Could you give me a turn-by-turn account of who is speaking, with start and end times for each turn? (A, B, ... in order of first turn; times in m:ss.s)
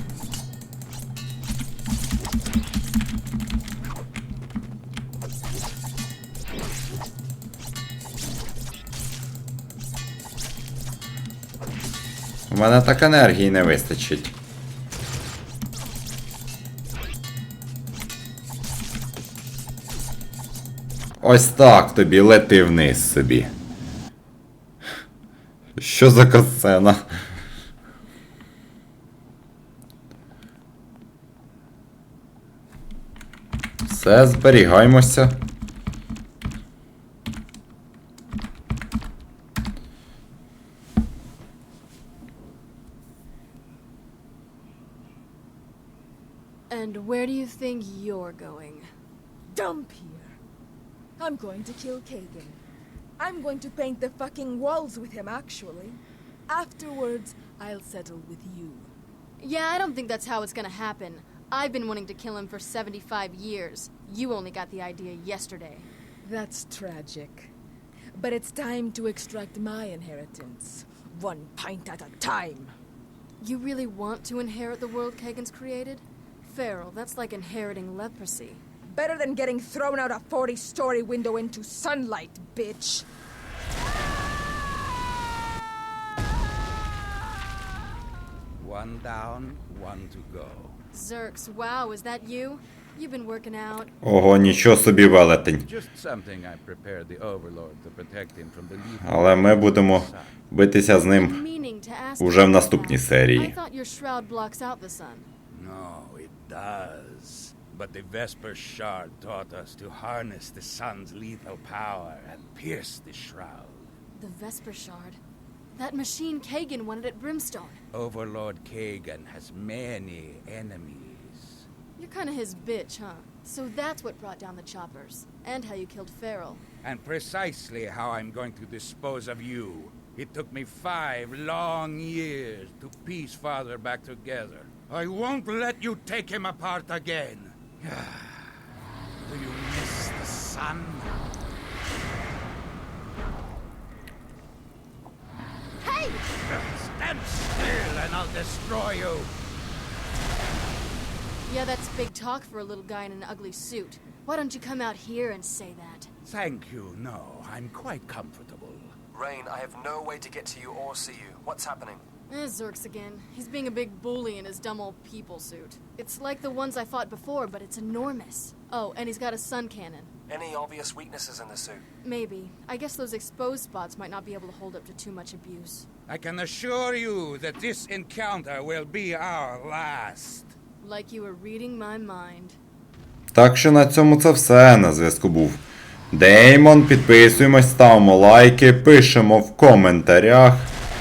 0:12.5-0:14.4 A
0:21.2-0:23.5 A
0:25.8-0:27.0 A
0:33.8-0:35.4 A
0:46.7-0:48.9 B
0:49.5-0:50.4 C
0:51.2-0:52.6 C
0:53.2-0:58.9 C
0:59.4-1:05.9 B
1:06.2-1:07.5 C
1:08.2-1:12.7 C
1:13.4-1:18.6 B
1:18.9-1:23.1 C
1:28.6-1:30.8 D
1:30.9-1:33.9 B
1:34.0-1:35.6 A
1:35.6-1:40.3 D
1:39.0-1:41.4 A
1:41.2-1:45.3 B
1:42.2-1:43.6 A
1:45.5-1:53.9 D
1:54.2-1:55.2 B
1:55.7-1:57.8 B
1:57.9-2:01.7 D
2:02.0-2:06.6 B
2:06.8-2:18.5 D
2:19.2-2:21.2 D
2:25.8-2:26.2 B
2:26.4-2:29.3 D
2:31.5-2:36.1 B
2:36.2-2:38.9 D
2:39.1-2:42.0 E
2:42.3-2:50.1 B
2:50.3-2:51.8 E
2:52.0-2:55.9 B
2:56.1-3:00.5 D
3:00.8-3:02.6 B
3:03.3-3:10.7 A